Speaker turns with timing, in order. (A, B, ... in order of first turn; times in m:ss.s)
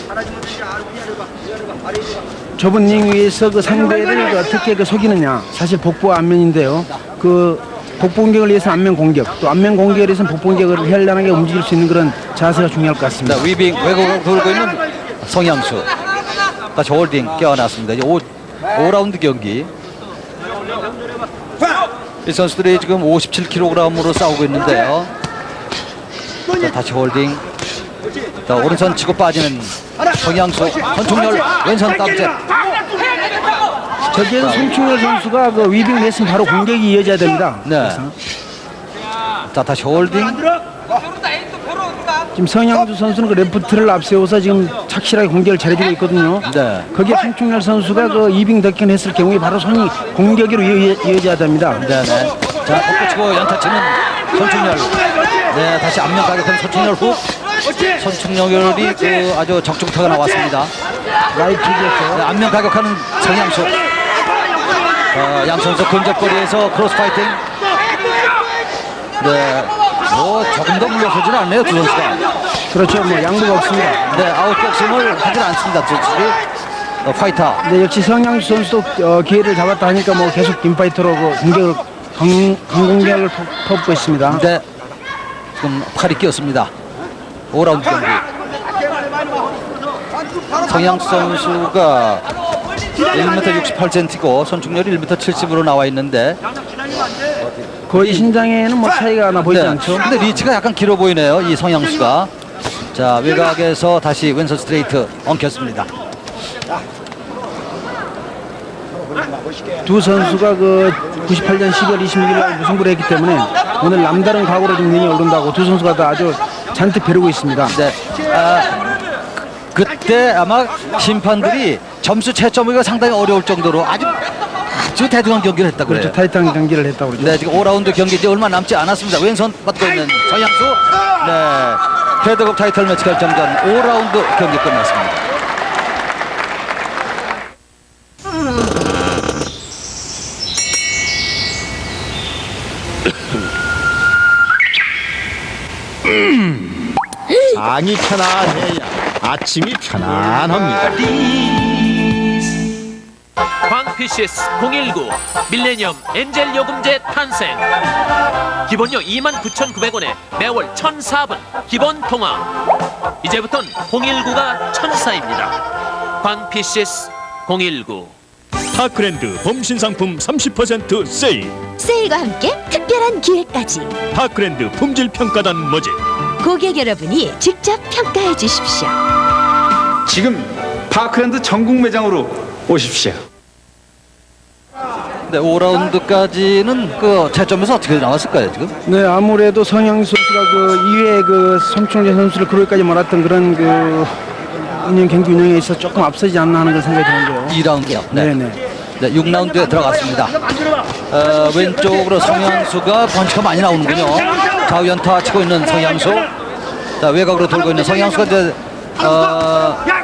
0:02.6-0:13.5 A
0:13.2-0:15.9 B
0:16.8-0:19.7 B
0:22.2-0:25.1 B
0:26.6-0:27.4 B
0:28.5-0:32.3 B
0:34.1-0:38.1 A
0:34.4-0:34.7 B
0:37.6-0:38.0 B
0:39.5-0:40.4 B
0:42.4-0:51.8 A
0:46.4-0:46.9 B
0:51.8-0:55.0 B
0:55.5-0:57.3 B
0:58.0-1:00.7 B
1:01.3-1:02.2 A
1:02.1-1:03.8 B
1:05.1-1:07.4 B
1:09.2-1:12.2 B
1:12.7-1:14.2 A
1:14.1-1:16.4 B
1:17.0-1:17.6 B
1:17.6-1:24.4 A
1:24.3-1:24.6 B
1:25.6-1:26.7 B
1:27.5-1:28.2 B
1:30.7-1:32.2 B
1:33.1-1:36.4 B
1:37.4-1:38.3 B
1:37.9-1:40.1 A
1:39.4-1:42.3 B
1:42.9-1:45.9 B
1:49.8-1:57.8 A
1:57.7-1:58.7 B
1:59.7-2:04.2 B
2:04.7-2:06.2 B
2:05.9-2:07.6 A
2:07.2-2:15.2 B
2:27.5-2:31.0 C
2:33.7-2:37.6 D
2:38.7-2:42.5 D
2:43.2-2:45.5 D
2:46.2-2:48.1 D
2:48.7-2:51.6 E
2:51.8-2:54.0 F
2:54.1-2:56.0 E
2:56.4-2:59.0 F
3:00.1-3:03.2 G
3:05.3-3:08.7 B
3:08.8-3:14.2 A
3:14.8-3:17.6 A
3:17.5-3:18.3 B
3:18.1-3:18.6 A
3:19.0-3:20.3 B
3:21.1-3:26.3 B
3:27.0-3:29.8 B